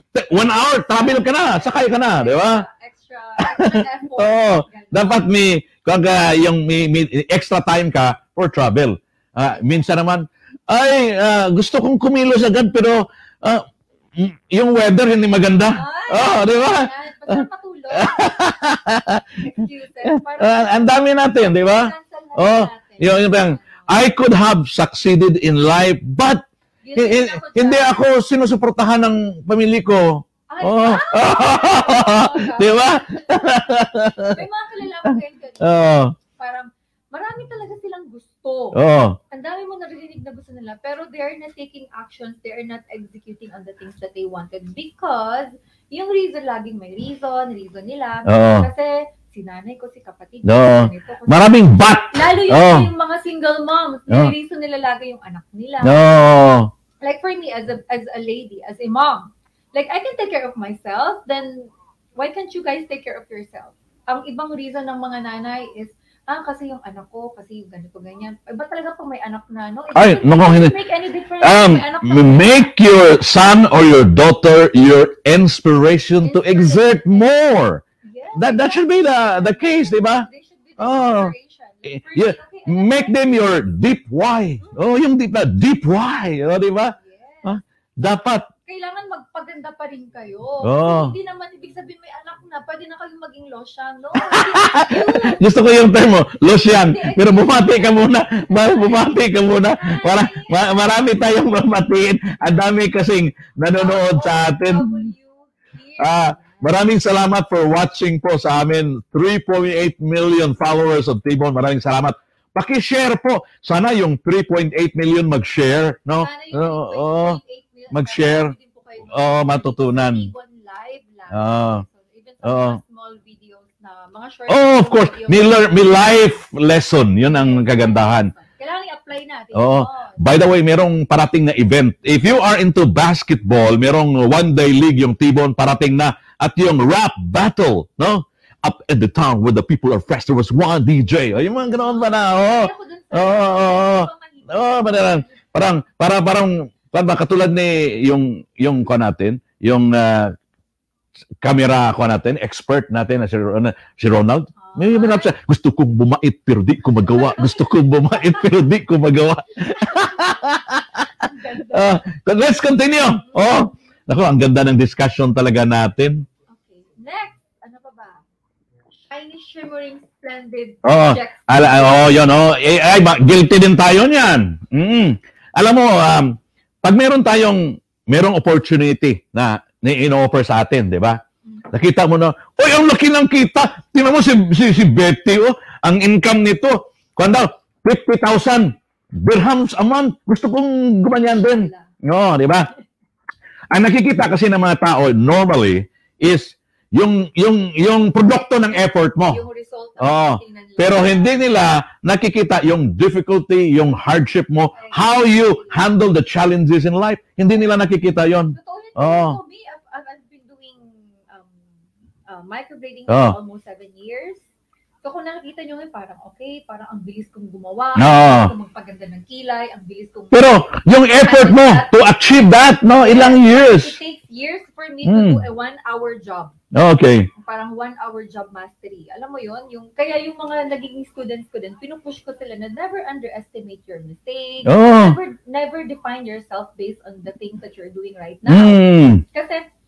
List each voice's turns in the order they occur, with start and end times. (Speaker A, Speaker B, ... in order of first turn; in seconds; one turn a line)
Speaker A: 0.1-2.6
Speaker B: 1.0-5.2
Speaker A: 3.4-13.7
Speaker B: 9.5-9.9
Speaker A: 14.2-19.4
Speaker B: 15.7-18.5
Speaker B: 19.4-23.9
Speaker A: 20.1-26.4
Speaker B: 26.8-28.0
Speaker A: 27.0-34.4
Speaker B: 30.5-33.5
Speaker B: 34.3-38.8
Speaker A: 35.1-36.1
Speaker A: 38.7-39.2
Speaker B: 39.3-56.0
Speaker A: 48.3-48.7
Speaker A: 50.4-52.9
Speaker A: 55.8-56.7
Speaker B: 57.0-72.7
Speaker A: 69.9-70.7
Speaker A: 71.4-77.8
Speaker B: 76.2-77.3
Speaker B: 78.0-83.5
Speaker A: 78.3-80.3
Speaker A: 80.8-81.3
Speaker A: 81.8-88.5
Speaker B: 84.6-84.9
Speaker B: 87.0-87.6
Speaker B: 88.7-95.5
Speaker A: 90.6-91.1
Speaker A: 94.2-105.1
Speaker B: 96.7-100.9
Speaker B: 103.8-106.7
Speaker A: 106.0-117.4
Speaker B: 116.2-126.3
Speaker A: 117.9-118.5
Speaker A: 119.1-120.3
Speaker A: 121.3-121.8
Speaker A: 122.4-122.8
Speaker A: 124.5-128.3
Speaker B: 127.2-130.2
Speaker A: 129.5-150.3
Speaker B: 141.7-145.4
Speaker A: 151.4-166.2
Speaker B: 154.6-155.3
Speaker B: 157.0-158.9
Speaker B: 159.5-162.0
Speaker B: 163.2-163.8
Speaker B: 166.5-168.2
Speaker B: 169.1-172.1
Speaker A: 170.8-181.2
Speaker B: 181.4-181.7
Speaker A: 181.7-192.7
Speaker B: 191.1-191.9
Speaker A: 193.7-199.4
Speaker B: 198.2-201.4
Speaker A: 200.0-209.4
Speaker B: 204.7-205.8
Speaker B: 208.5-211.6
Speaker B: 212.3-214.4
Speaker A: 213.1-213.3
Speaker B: 215.0-220.7
Speaker A: 217.9-218.5
Speaker A: 220.3-224.0
Speaker B: 221.2-226.5
Speaker A: 225.0-225.4
Speaker A: 226.7-227.3
Speaker B: 227.4-239.6
Speaker A: 234.6-235.2
Speaker A: 238.5-239.2